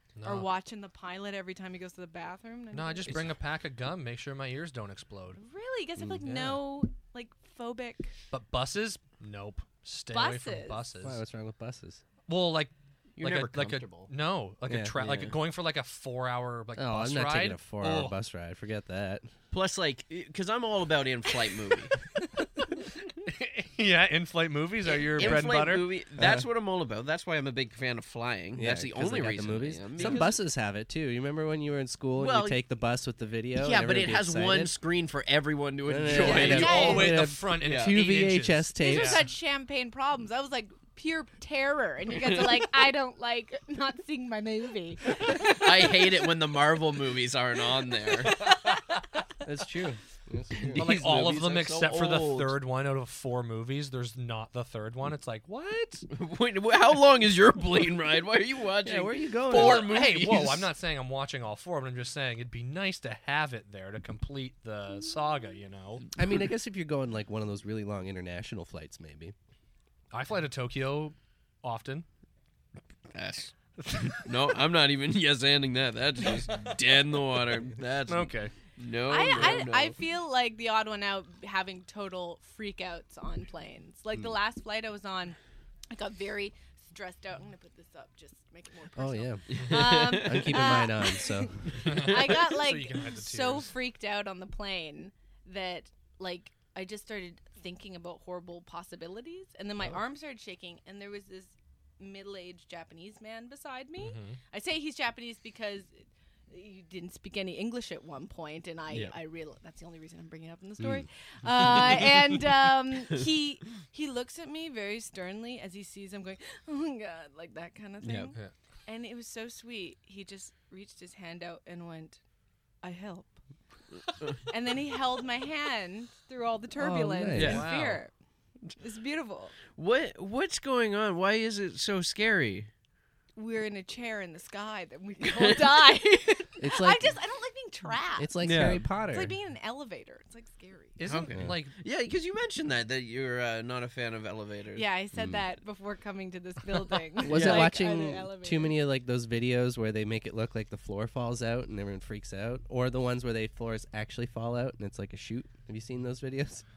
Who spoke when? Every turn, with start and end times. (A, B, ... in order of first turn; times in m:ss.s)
0:00.2-0:00.5 A
0:00.2-0:03.3 B
0:02.7-0:05.4 A
0:05.4-0:08.1 B
0:06.2-0:06.6 A
0:08.3-0:11.2 A
0:10.1-0:10.8 B
0:11.0-0:12.0 C
0:12.3-0:18.2 A
0:13.2-0:14.1 D
0:14.7-0:15.0 C
0:15.0-0:15.3 D
0:16.8-0:19.3 C
0:19.5-0:21.9 D
0:22.4-0:25.9 A
0:25.1-0:30.3 D
0:26.2-0:26.4 C
0:28.5-0:34.7 C
0:30.0-0:30.3 B
0:32.2-0:32.6 D
0:33.6-0:38.0 D
0:35.9-0:39.2 C
0:36.1-0:37.2 B
0:36.1-0:39.3 A
0:38.8-0:46.1 B
0:42.1-0:42.6 D
0:45.5-0:48.4 D
0:48.2-0:48.8 B
0:49.4-0:50.9 C
0:50.6-0:52.5 D
0:50.7-0:56.0 A
0:56.1-1:00.7 D
0:58.8-0:59.9 C
0:59.5-1:06.0 A
1:06.2-1:09.3 C
1:10.1-1:12.0 A
1:13.1-1:20.0 D
1:13.8-1:14.5 A
1:16.2-1:17.2 A
1:18.1-1:18.5 A
1:19.1-1:25.4 B
1:25.9-1:45.9 B
1:29.0-1:29.4 C
1:29.5-1:30.8 D
1:30.1-1:31.8 C
1:31.7-1:32.4 D
1:31.8-1:33.7 A
1:44.0-1:44.4 A
1:46.5-1:58.4 B
1:50.8-1:51.1 C
1:58.0-1:58.3 D
1:58.9-2:02.2 B
2:02.8-2:03.4 B
2:04.4-2:08.1 B
2:06.8-2:07.6 C
2:07.3-2:07.6 D
2:07.3-2:08.0 A
2:08.8-2:09.5 B
2:09.7-2:12.7 D
2:13.4-2:18.3 B
2:15.3-2:15.6 D
2:16.6-2:17.1 C
2:18.2-2:19.3 C
2:18.4-2:18.8 D
2:19.0-2:20.9 B
2:21.0-2:21.7 A
2:21.0-2:24.8 D
2:24.8-2:28.8 B
2:25.1-2:25.4 C
2:27.2-2:36.6 C
2:27.3-2:27.8 D